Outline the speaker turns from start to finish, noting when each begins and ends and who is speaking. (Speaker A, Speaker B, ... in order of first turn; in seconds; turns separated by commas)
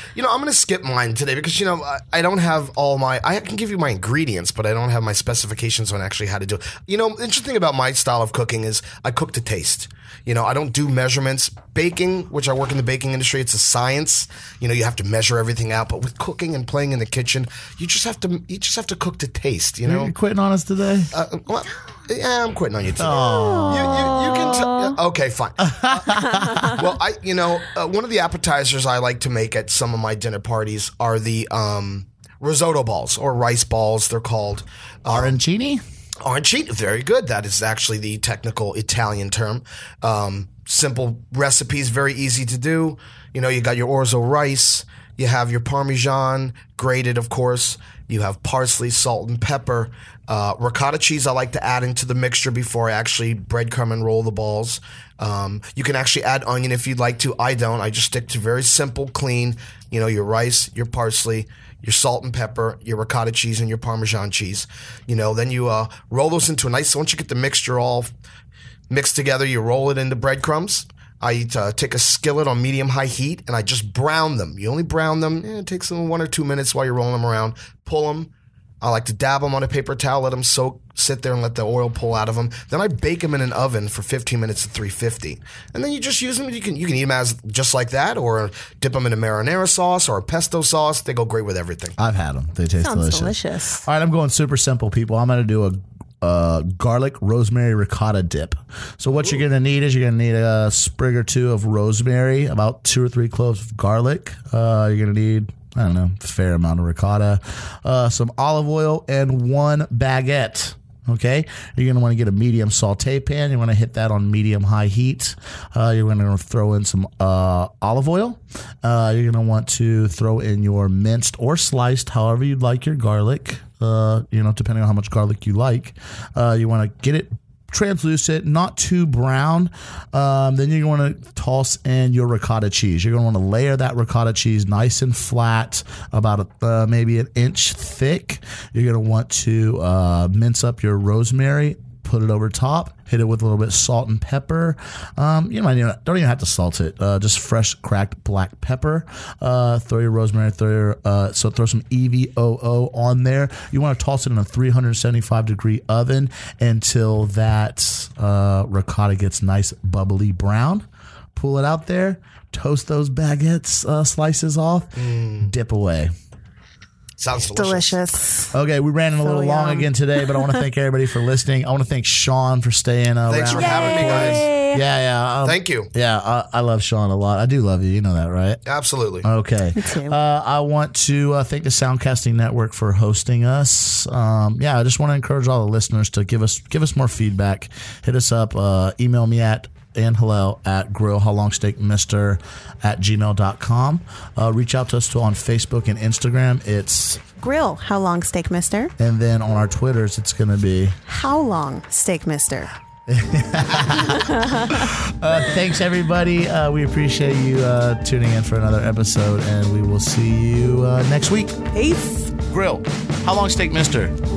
Speaker A: 0.1-20.1, Speaker B: 19.9-21.1, Speaker A: 21.1-35.4, Speaker B: 23.0-24.6, Speaker C: 23.1-24.9, Speaker B: 25.6-26.9, Speaker C: 26.0-26.8, Speaker B: 35.1-35.8, Speaker A: 36.2-68.1, Speaker A: 68.9-92.0, Speaker B: 92.0-166.1, Speaker C: 92.8-93.9, Speaker A: 165.0-165.5, Speaker A: 167.2-168.0, Speaker C: 167.4-168.5, Speaker B: 168.5-178.6, Speaker C: 169.2-170.6, Speaker A: 173.3-174.4, Speaker C: 173.5-174.8, Speaker A: 175.4-175.9, Speaker A: 178.7-179.3, Speaker B: 179.2-197.2, Speaker C: 179.8-180.2, Speaker C: 197.4-198.9, Speaker B: 199.0-201.0, Speaker C: 201.1-202.7, Speaker B: 203.1-211.6, Speaker C: 203.9-205.0, Speaker C: 211.7-212.3, Speaker B: 212.4-214.2